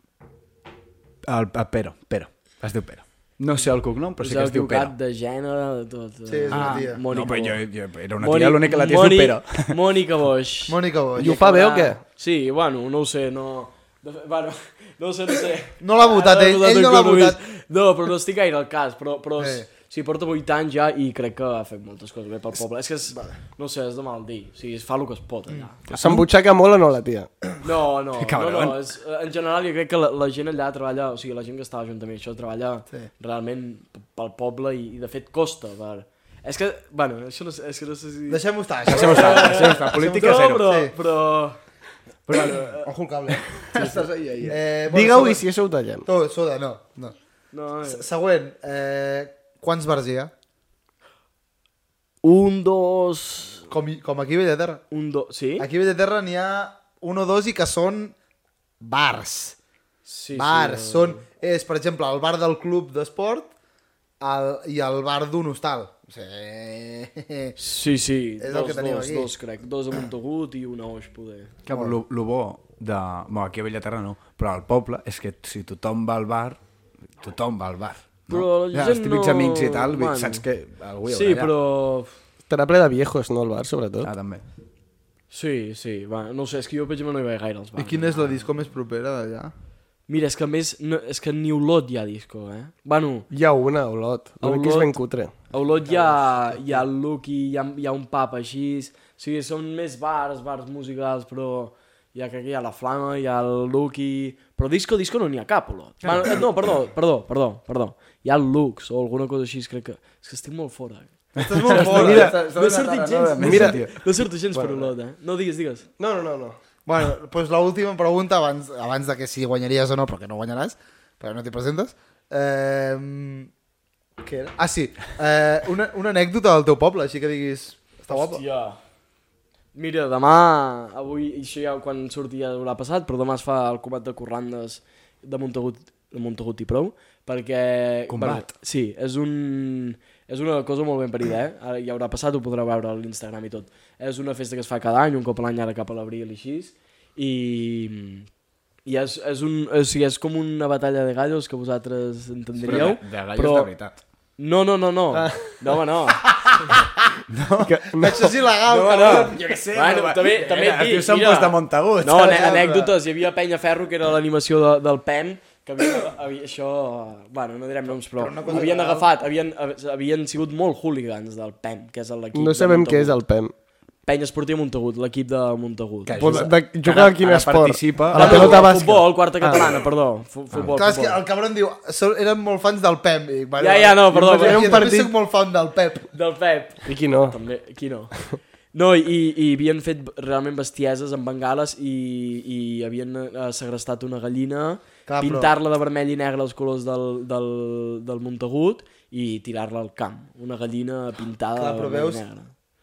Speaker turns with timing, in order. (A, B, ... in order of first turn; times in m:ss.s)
0:01.2-0:04.9 A
0:04.2-0:07.6 B
0:06.3-0:07.0 C
0:06.5-0:09.7 A
0:08.2-0:25.8 B
0:10.7-0:11.5 C
0:11.2-0:12.0 D
0:15.8-0:17.4 C
0:25.9-0:26.3 A
0:25.9-0:27.3 D
0:27.6-0:41.6 B
0:28.2-0:28.8 A
0:38.3-0:40.9 C
0:38.9-0:40.7 A
0:42.3-0:42.8 B
0:42.3-0:45.4 C
0:43.5-0:44.6 A
0:44.9-0:46.0 D
0:46.0-0:47.1 C
0:47.5-0:48.0 B
0:47.8-0:50.3 C
0:52.2-0:53.7 B
0:53.7-0:54.8 C
0:54.9-0:55.7 B
0:55.6-0:58.1 C
0:58.8-0:59.6 C
1:00.0-1:01.2 B
1:00.3-1:03.5 C
1:04.2-1:07.5 C
1:07.6-1:11.6 B
1:08.4-1:09.3 C
1:11.6-1:16.6 A
1:11.7-1:12.0 C
1:17.2-1:21.5 A
1:18.3-1:20.4 B
1:21.0-1:22.1 B
1:22.5-1:24.1 D
1:24.0-1:24.4 A
1:25.3-1:28.4 B
1:27.8-1:29.5 C
1:30.1-1:33.3 B
1:33.3-1:35.3 D
1:34.4-1:34.9 B
1:35.5-1:55.8 B
1:35.9-1:36.8 C
1:46.1-1:46.4 C
1:51.4-1:52.4 C
1:51.4-1:53.9 A
1:52.0-1:52.4 D
1:53.4-1:53.8 D
1:54.5-1:54.9 D
1:56.0-1:56.6 D
1:56.8-2:03.5 C
2:04.2-2:08.4 C
2:08.1-2:08.8 B
2:09.7-2:28.3 B
2:18.1-2:18.5 A
2:28.8-2:33.7 B
2:32.6-2:34.0 A
2:34.4-2:36.3 B
2:35.1-2:35.4 D
2:37.3-2:37.8 A
2:37.7-2:38.3 D
2:38.0-2:39.4 C
2:38.6-2:53.2 B
2:39.3-2:42.6 A
2:42.1-2:42.9 C
2:48.2-2:49.1 C
2:52.3-2:53.5 D
2:54.0-2:56.5 B
2:56.0-2:59.0 A
2:56.2-2:59.7 D
2:58.1-3:01.2 B
3:00.6-3:06.1 C
3:03.6-3:05.0 B
3:04.1-3:05.1 D
3:06.1-3:08.1 B
3:06.8-3:07.4 D
3:08.7-3:22.5 B
3:15.1-3:15.5 C
3:21.6-3:22.2 C